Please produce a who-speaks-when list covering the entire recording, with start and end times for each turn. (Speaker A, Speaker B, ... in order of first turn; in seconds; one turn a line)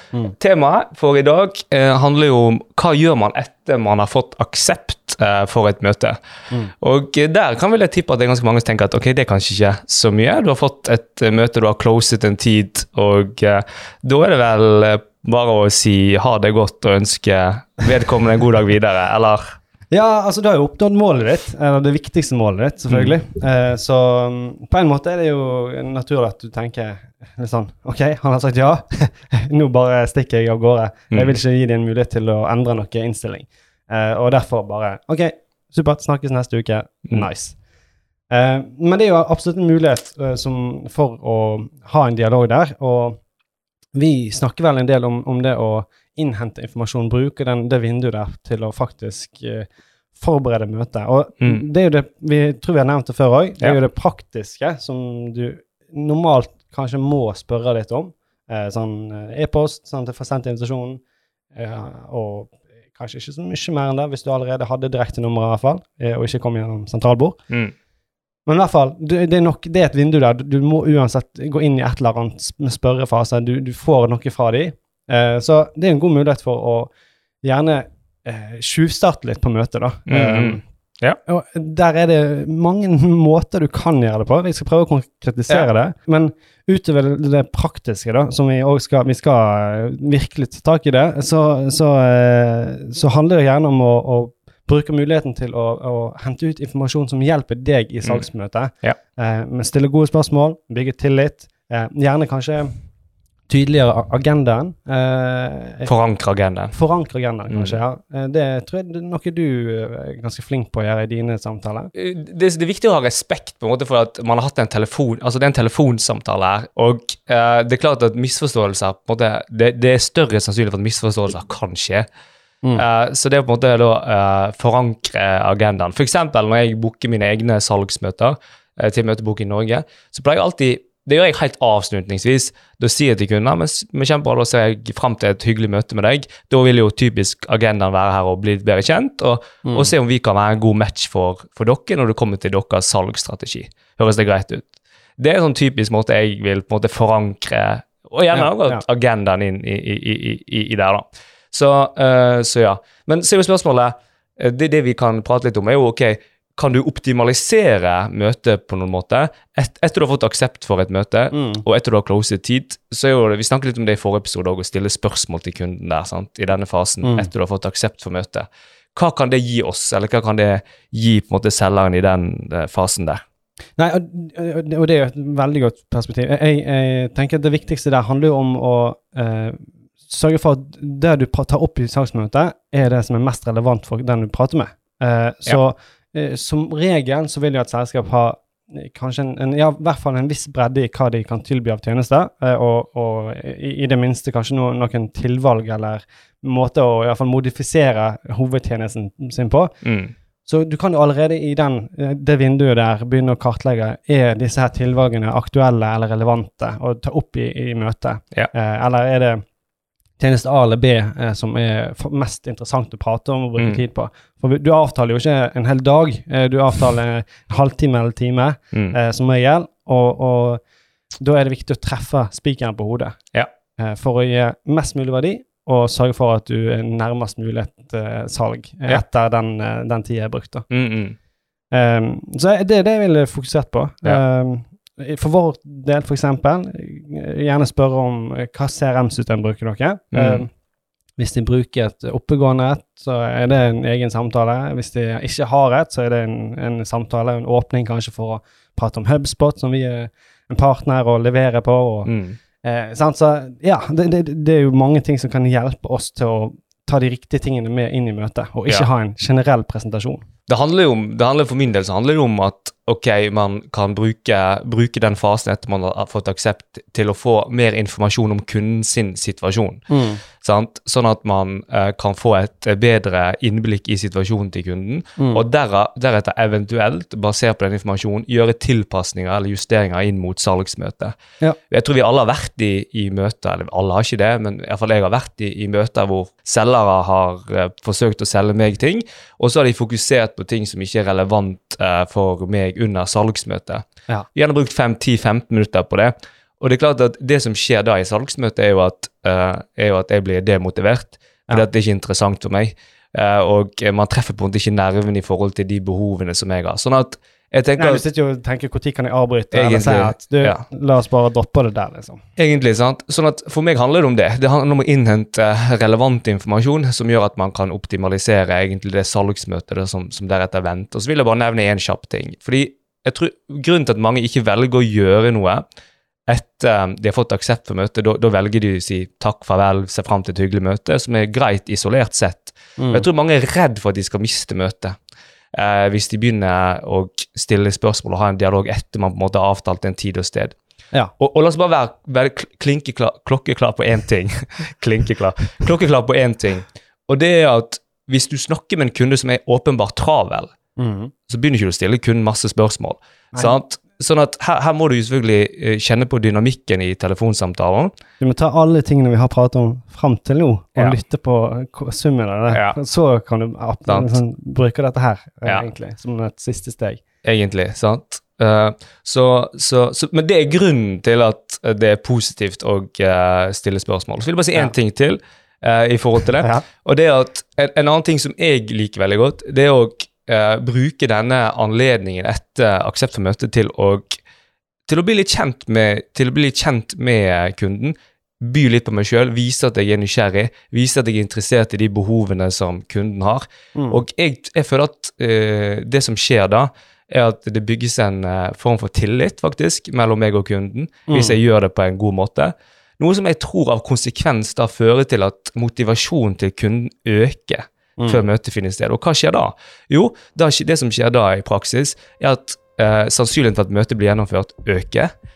Speaker A: 0.4-6.2
Speaker A: 6.8-19.6
Speaker B: 19.9-37.6
Speaker B: 38.3-43.2
Speaker B: 44.0-61.0
Speaker B: 61.5-67.4
Speaker B: 68.5-76.9
Speaker B: 77.4-80.6
Speaker A: 80.1-81.2
Speaker B: 81.3-102.7
Speaker B: 103.5-105.9
Speaker A: 105.9-106.7
Speaker B: 106.7-111.9
Speaker A: 107.5-107.8
Speaker A: 112.0-122.1
Speaker A: 122.8-173.2
Speaker B: 148.3-148.8
Speaker B: 161.3-161.6
Speaker B: 167.0-167.3
Speaker B: 173.8-199.8
Speaker A: 199.8-200.1
Speaker B: 200.4-209.4
Speaker B: 210.2-220.6
Speaker B: 221.2-223.2
Speaker B: 223.8-230.7
Speaker A: 230.7-231.2
Speaker B: 231.7-240.5
Speaker A: 240.1-240.4
Speaker B: 241.2-252.1
Speaker A: 252.1-252.4
Speaker B: 252.6-260.2
Speaker A: 260.5-269.9
Speaker B: 269.9-270.2
Speaker A: 270.4-281.1
Speaker B: 275.2-275.4
Speaker A: 281.7-293.8
Speaker A: 294.4-308.0
Speaker B: 307.8-312.2
Speaker A: 309.5-310.6
Speaker A: 312.4-325.6
Speaker A: 326.3-335.0
Speaker B: 332.8-333.1
Speaker A: 335.5-340.6
Speaker A: 341.2-350.5
Speaker B: 350.8-351.1
Speaker A: 351.3-357.9
Speaker B: 358.2-367.0
Speaker A: 362.5-362.8
Speaker A: 363.9-364.2
Speaker A: 367.2-384.2
Speaker A: 384.9-415.1
Speaker B: 393.8-394.0
Speaker B: 401.1-401.4